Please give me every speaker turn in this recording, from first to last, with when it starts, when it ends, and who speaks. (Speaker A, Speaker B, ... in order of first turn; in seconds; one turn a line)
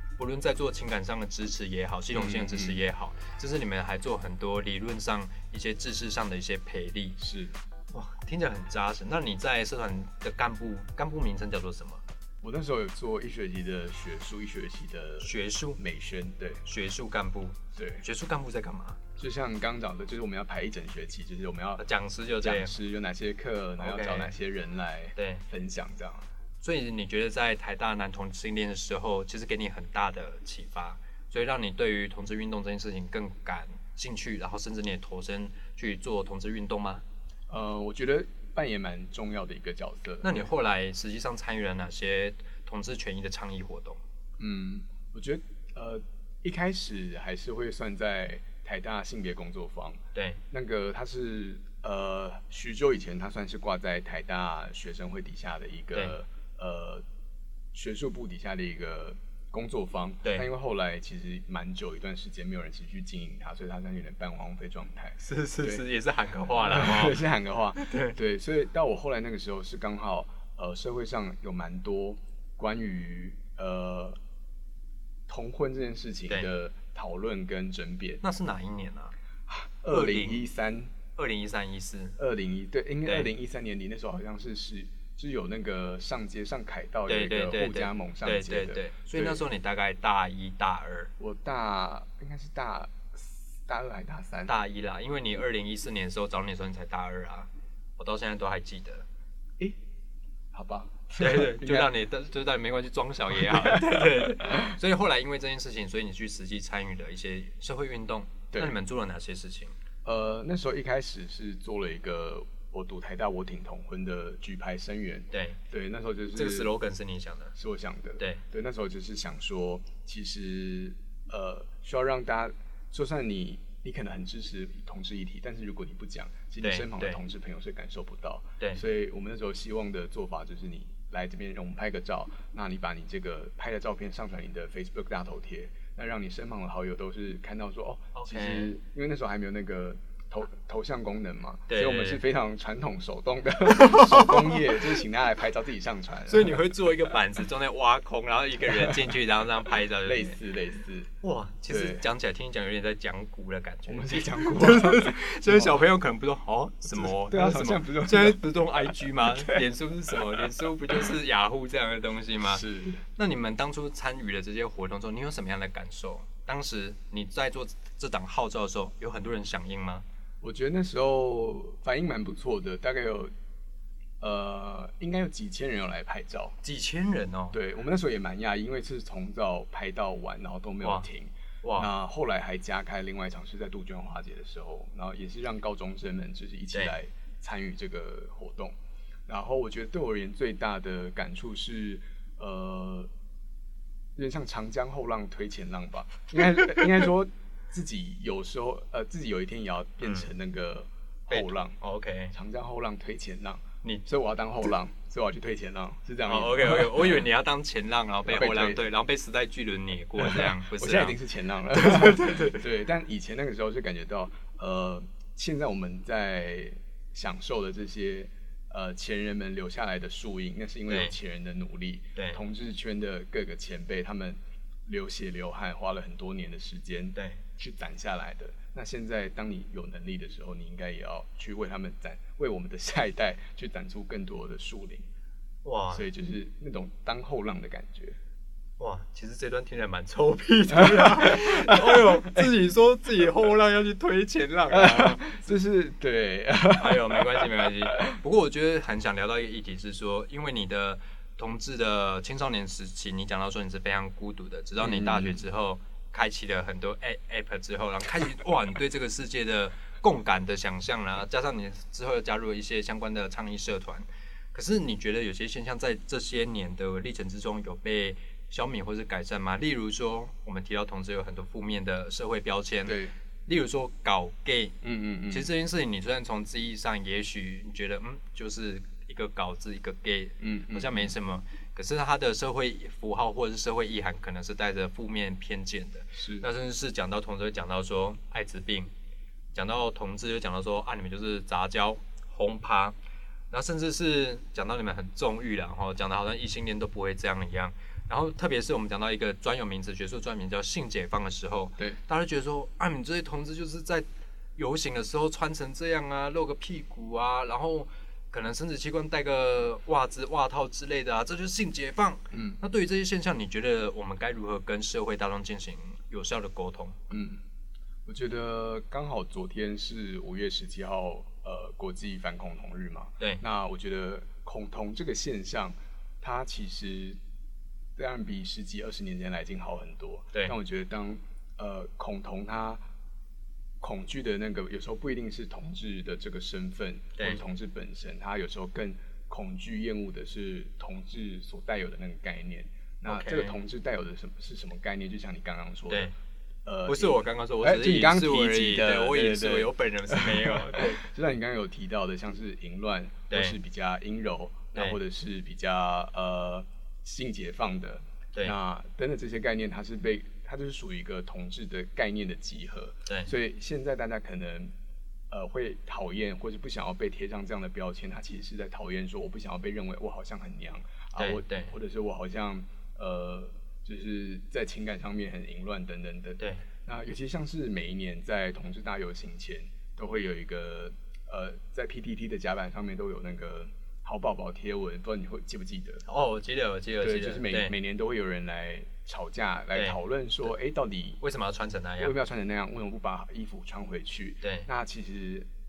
Speaker A: 0.2-7.2
Speaker B: 2.1-2.8
Speaker B: 7.2-7.6
Speaker A: 7.9-12.0
Speaker B: 12.4-16.6
Speaker A: 15.2-15.8
Speaker A: 16.6-19.0
Speaker B: 17.7-18.0
Speaker B: 19.2-21.8
Speaker A: 21.8-22.8
Speaker B: 22.4-26.2
Speaker A: 23.8-24.3
Speaker A: 25.2-25.4
Speaker A: 26.6-37.0
Speaker B: 37.5-40.5
Speaker A: 40.2-44.0
Speaker B: 44.4-57.0
Speaker A: 50.1-50.4
Speaker B: 57.7-65.8
Speaker A: 65.2-68.2
Speaker B: 66.6-74.2
Speaker B: 75.3-78.2
Speaker A: 78.2-79.1
Speaker B: 79.5-80.9
Speaker A: 79.9-80.4
Speaker A: 81.2-82.2
Speaker B: 82.2-89.4
Speaker A: 87.1-91.1
Speaker B: 91.2-94.5
Speaker A: 94.5-99.0
Speaker B: 100.5-101.9
Speaker A: 101.2-109.8
Speaker B: 103.6-104.5
Speaker B: 110.0-116.7
Speaker A: 115.3-115.6
Speaker A: 116.3-117.5
Speaker B: 117.5-146.7
Speaker A: 126.6-127.2
Speaker A: 138.2-138.7
Speaker A: 141.7-142.2
Speaker A: 143.7-144.5
Speaker A: 146.3-150.3
Speaker B: 148.7-149.1
Speaker B: 150.0-151.1
Speaker A: 151.2-162.6
Speaker B: 151.7-152.0
Speaker B: 153.9-155.8
Speaker B: 156.9-160.5
Speaker B: 162.5-163.0
Speaker A: 163.2-170.1
Speaker B: 170.4-173.3
Speaker B: 174.2-176.6
Speaker A: 176.6-177.6
Speaker B: 177.5-193.1
Speaker A: 181.6-181.9
Speaker B: 194.2-201.8
Speaker A: 201.3-202.3
Speaker B: 202.3-207.2
Speaker A: 206.3-211.2
Speaker B: 208.3-208.8
Speaker B: 210.2-235.1
Speaker A: 211.7-212.6
Speaker A: 220.9-221.2
Speaker A: 227.2-227.4
Speaker A: 235.6-236.0
Speaker B: 235.9-238.2
Speaker A: 238.8-245.4
Speaker B: 240.7-242.5
Speaker B: 244.7-248.2
Speaker A: 246.8-274.8
Speaker B: 254.8-255.4
Speaker B: 272.9-273.1
Speaker B: 274.8-275.5
Speaker A: 275.3-288.9
Speaker B: 280.4-281.1
Speaker B: 286.1-286.5
Speaker A: 289.5-293.0
Speaker A: 293.5-304.1
Speaker A: 304.6-317.0
Speaker B: 312.3-312.6
Speaker B: 317.1-317.4
Speaker B: 318.1-327.2
Speaker B: 328.0-332.8
Speaker B: 333.8-346.1
Speaker A: 343.1-343.6
Speaker B: 346.6-364.7
Speaker A: 346.9-351.0
Speaker A: 353.3-353.6
Speaker B: 365.3-386.0
Speaker A: 371.2-371.7
Speaker A: 386.1-387.8
Speaker B: 387.0-391.2
Speaker A: 391.2-392.1
Speaker B: 392.0-395.5
Speaker A: 394.4-394.7